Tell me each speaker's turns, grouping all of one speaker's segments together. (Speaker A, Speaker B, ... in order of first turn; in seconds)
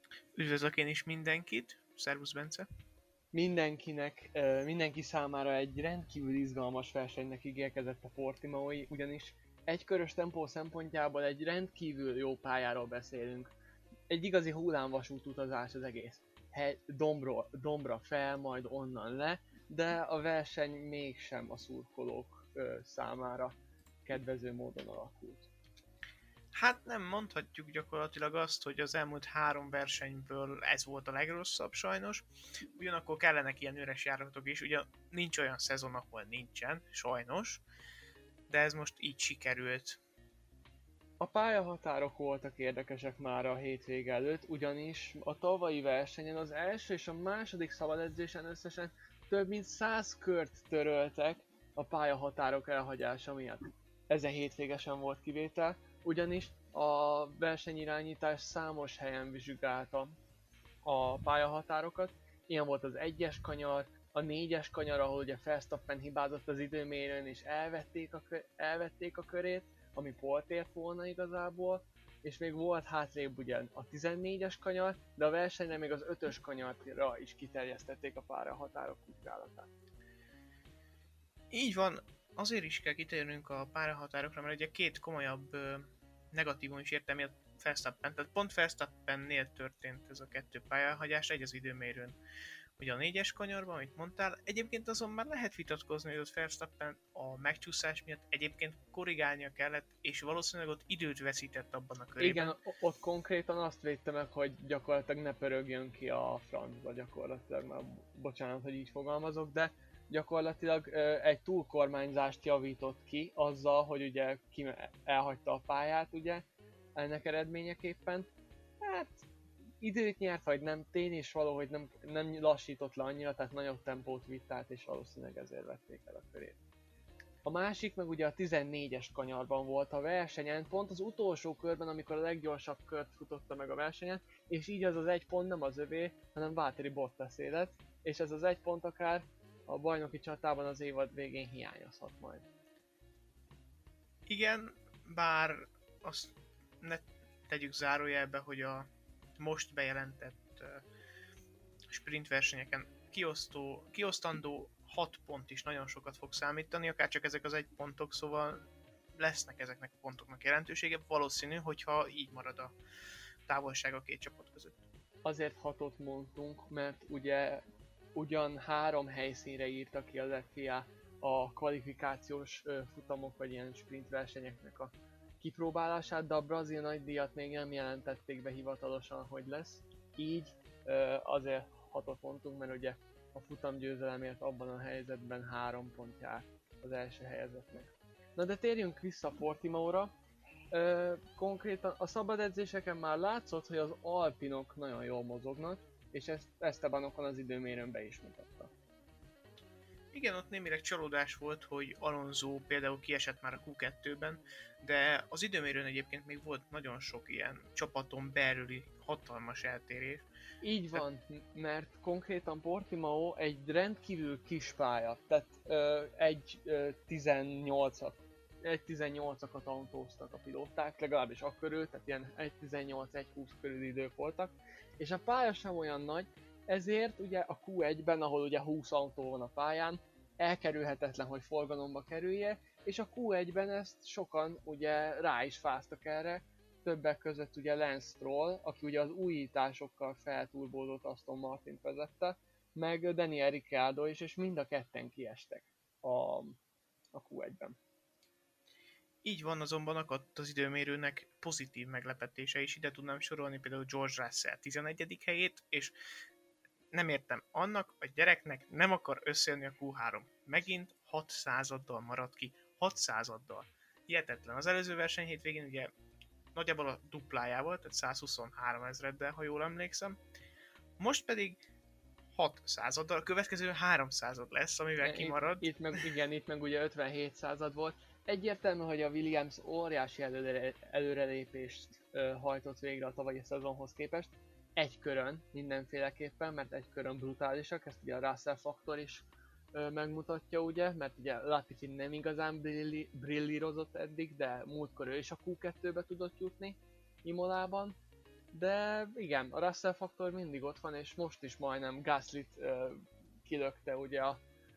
Speaker A: 0.3-2.7, 26.5-37.6, 38.5-40.0, 81.5-92.2, 92.8-102.6, 144.3-150.8, 151.9-158.6, 159.1-162.7, 163.4-164.8, 200.1-210.2, 249.2-255.9, 256.9-265.9, 266.5-270.2, 271.0-271.6, 272.3-276.0
Speaker B: 3.3-13.5, 14.1-25.5, 41.2-60.1, 60.8-79.7, 102.2-116.4, 116.9-118.3, 118.8-119.3, 119.8-126.6, 127.4-142.4, 165.2-167.6, 168.1-190.1, 190.7-198.7, 210.6-246.6, 247.1-247.8, 275.0-297.9, 298.5-304.4